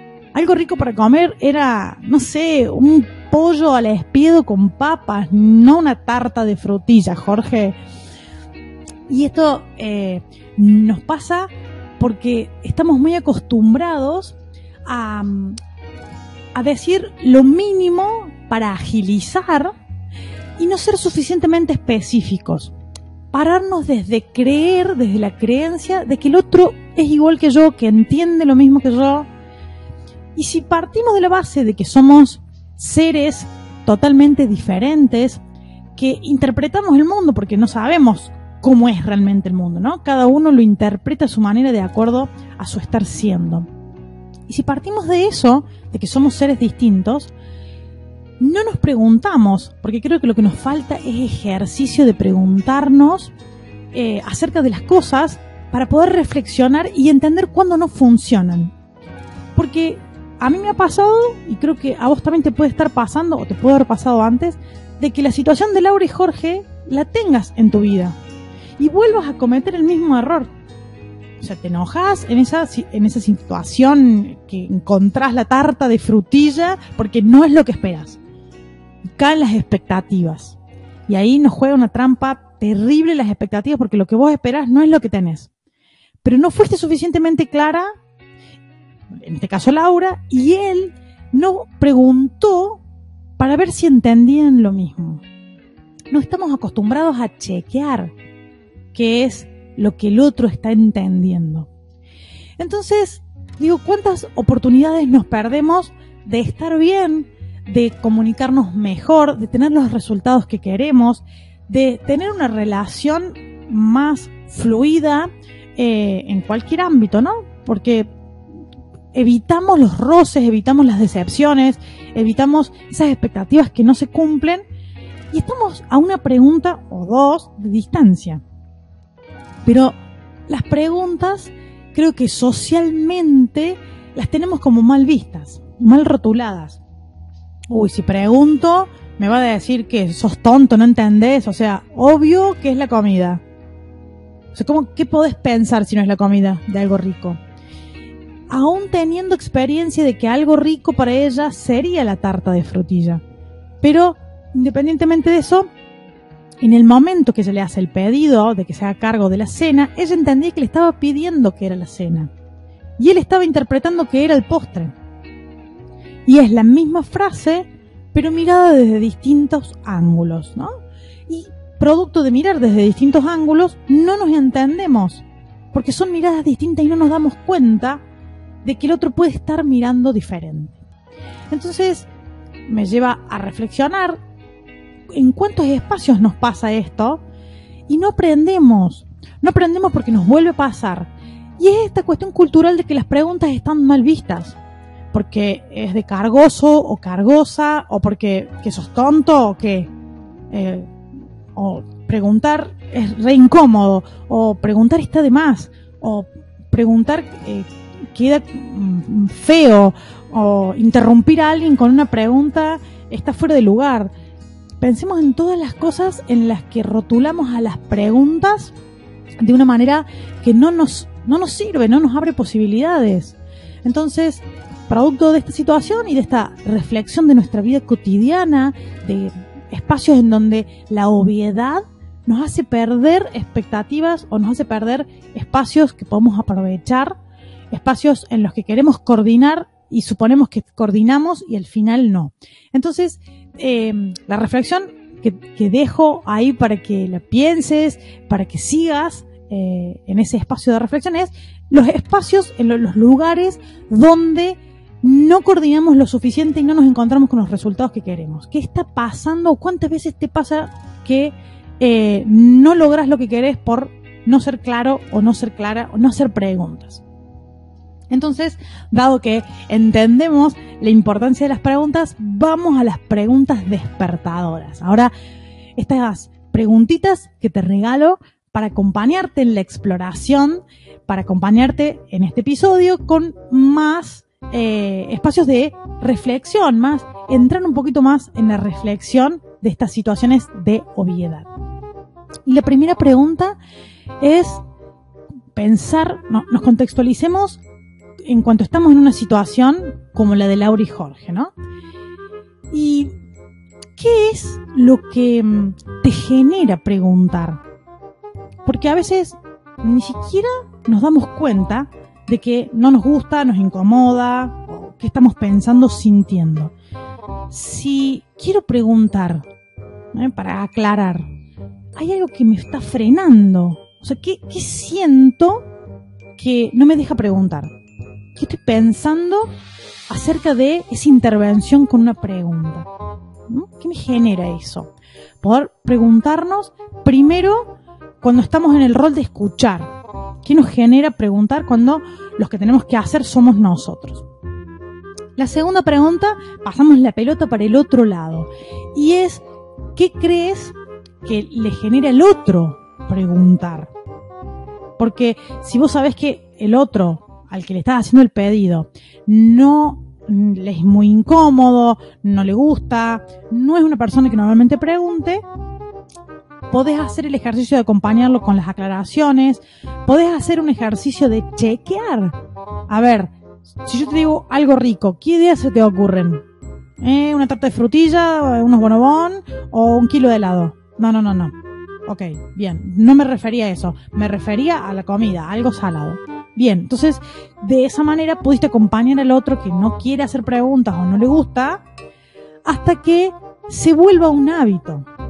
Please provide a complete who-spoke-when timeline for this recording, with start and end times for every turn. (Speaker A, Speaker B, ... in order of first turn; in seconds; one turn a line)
Speaker A: 0.3-7.8
Speaker A: 9.1-15.6
Speaker A: 16.5-19.7
Speaker A: 20.6-22.7
Speaker A: 23.3-29.3
Speaker A: 30.4-35.4
Speaker A: 36.0-43.7
Speaker A: 44.5-47.3
Speaker A: 48.4-53.3
Speaker A: 53.9-58.7
Speaker A: 59.5-68.2
Speaker A: 68.8-70.5
Speaker A: 71.4-78.2
Speaker A: 79.2-85.5
Speaker A: 86.2-87.8
Speaker A: 89.1-92.8
Speaker A: 93.4-95.2
Speaker A: 96.1-98.1
Speaker A: 98.9-101.7
Speaker A: 102.6-118.1
Speaker A: 119.1-124.6
Speaker A: 125.3-128.4
Speaker A: 129.6-129.9
Speaker A: 130.5-136.8
Speaker A: 137.7-143.4
Speaker A: 144.5-147.4
Speaker A: 148.5-153.2
Speaker A: 153.8-155.7
Speaker A: 156.6-162.3
Speaker A: 163.0-164.9
Speaker A: 166.2-170.7
Speaker A: 171.3-178.0
Speaker A: 178.6-180.8
Speaker A: 181.5-182.1
Speaker A: 182.7-184.2
Speaker A: 185.1-187.2
Speaker A: 187.9-194.6
Speaker A: 195.1-199.9
Speaker A: 200.5-200.9
Speaker A: 201.5-214.1
Speaker A: 214.8-218.7
Speaker A: 219.4-237.1
Speaker A: 237.7-267.0
Speaker A: 268.1-275.1
Speaker A: 275.8-291.5
Speaker A: 292.4-293.6
Speaker A: 294.2-294.6
Speaker A: 295.5-297.6
Speaker A: 298.2-301.5
Speaker A: 302.7-303.1
Speaker A: 304.0-307.6
Speaker A: 308.6-316.7
Speaker A: 317.5-319.5
Speaker A: 320.1-321.2
Speaker A: 321.9-325.6
Speaker A: 326.4-327.7
Speaker A: 328.4-329.5
Speaker A: 330.1-332.9
Speaker A: 333.5-339.9
Speaker A: 340.4-344.2
Speaker A: 345.4-349.4
Speaker A: 349.9-353.9
Speaker A: 355.0-365.4
Speaker A: 366.7-372.4
Speaker A: 372.9-373.3
Speaker A: 373.8-376.4
Speaker A: 377.0-381.5
Speaker A: 382.1-391.8
Speaker A: 392.6-395.1